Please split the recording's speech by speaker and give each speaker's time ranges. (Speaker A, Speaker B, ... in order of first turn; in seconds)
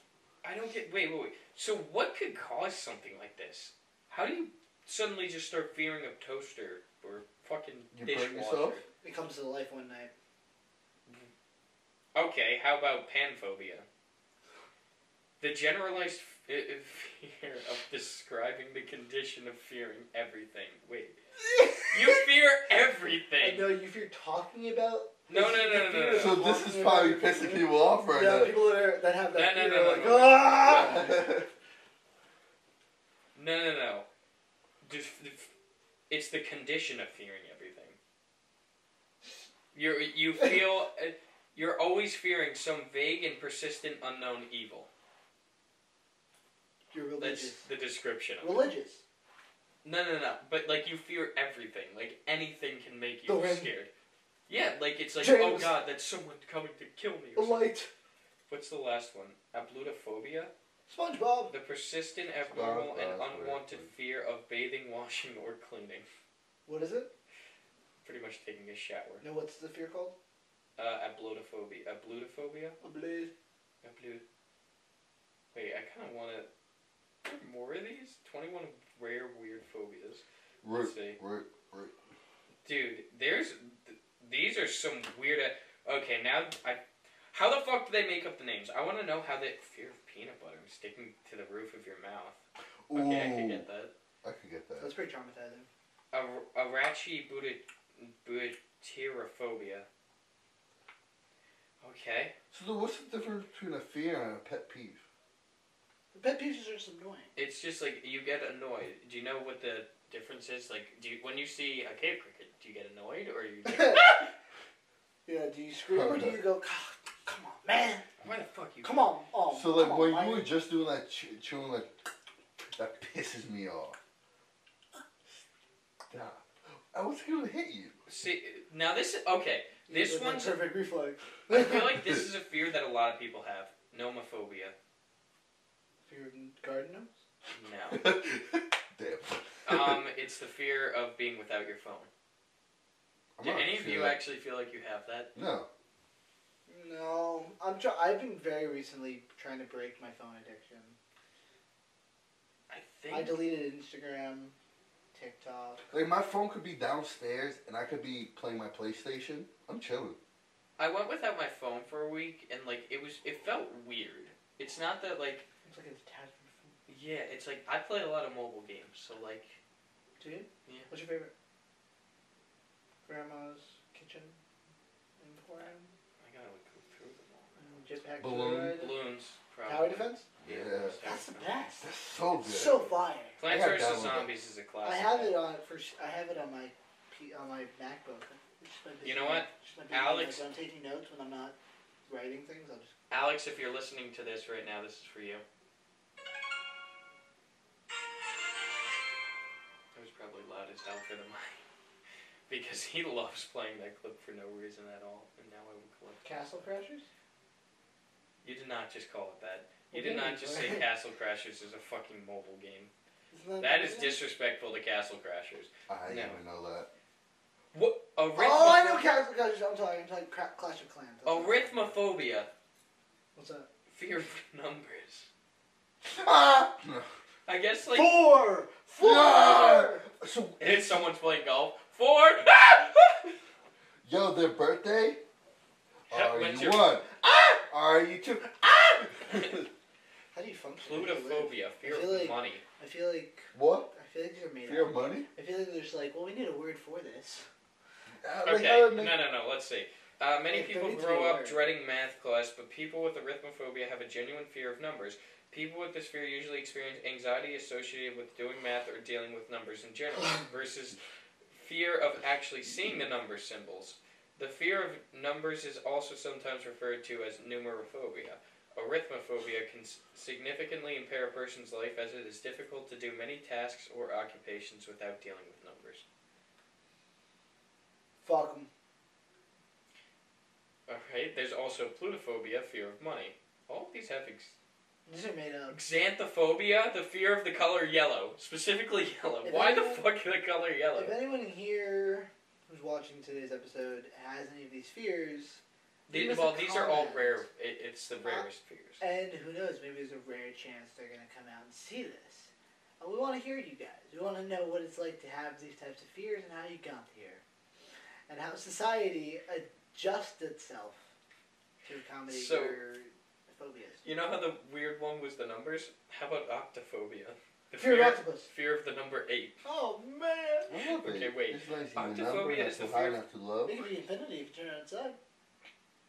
Speaker A: 0.4-8.8, 12.1-13.8, 15.4-21.2, 21.9-23.7, 25.3-26.4, 29.3-31.1, 33.3-34.0, 34.8-35.5, 36.1-38.0, 39.7-44.9, 47.2-48.6, 49.8-53.9, 54.5-57.7, 58.5-60.5, 61.5-66.0, 68.0-69.2, 70.8-72.8, 73.8-74.2, 75.5-76.5, 77.2-81.2, 82.6-86.8, 87.3-92.4, 92.9-93.9, 96.1-99.9, 101.8-102.3, 107.3-114.3, 118.2-118.9, 128.1-130.6, 131.5-134.7, 137.5-138.1, 139.6-142.1, 143.4-145.3, 152.7-153.4, 160.8-165.4, 166.9-169.6, 170.6-170.9, 176.2-181.6, 183.4-185.4, 189.0-190.4, 193.1-195.4, 199.9-201.6, 202.5-206.6, 208.4-212.9, 213.6-216.4, 217.7-219.1, 221.2-222.5, 223.9-225.3, 227.4-228.2, 230.6-233.3, 236.1-237.0, 240.8-242.6, 248.4-276.0, 280.9-284.5, 285.7-291.1, 296.1-299.0, 312.3-312.8, 314.0-319.6, 321.0-323.2
Speaker B: 7.9-8.8, 26.1-28.6, 30.6-31.5, 62.5-63.9, 80.6-81.9, 92.9-93.6, 94.2-94.9, 102.5-105.0, 115.9-116.4, 119.5-121.9, 122.7-124.0, 126.1-127.9, 137.9-140.0, 143.3-144.2, 145.3-145.7, 155.9-160.2, 178.2-178.8, 180.4-181.0, 181.8-182.8, 183.4-184.3, 215.9-216.9, 226.0-227.1, 229.0-231.0, 234.0-235.2, 236.1-239.7, 243.5-243.9, 244.6-245.3, 248.2-249.2, 320.7-323.8
Speaker C: 9.0-10.1, 21.4-22.0, 23.4-31.2, 46.9-47.6, 48.4-49.0, 53.2-53.7, 55.2-55.7, 57.4-57.9, 60.9-61.5, 66.7-67.1, 69.2-70.2, 72.8-73.3, 94.8-95.7, 106.1-107.3, 113.6-114.2, 115.2-118.1, 118.8-120.5, 129.9-131.8, 136.1-137.1, 146.7-150.9, 153.1-154.5, 155.1-155.8, 165.7-166.7, 170.2-171.3, 173.1-174.4, 175.2-175.9, 177.6-179.0, 179.6-180.3, 181.0-181.9, 182.4-183.4, 184.8-192.9, 206.2-207.1, 209.9-210.8, 213.3-214.2, 218.3-221.9, 223.3-223.7, 227.8-230.1, 240.3-247.5, 250.5-251.7, 278.2-278.7, 285.1-285.8, 289.4-290.0, 290.9-297.4, 299.0-307.4, 308.3-311.1, 311.8-314.0, 317.8-318.5, 319.6-320.7, 323.6-325.2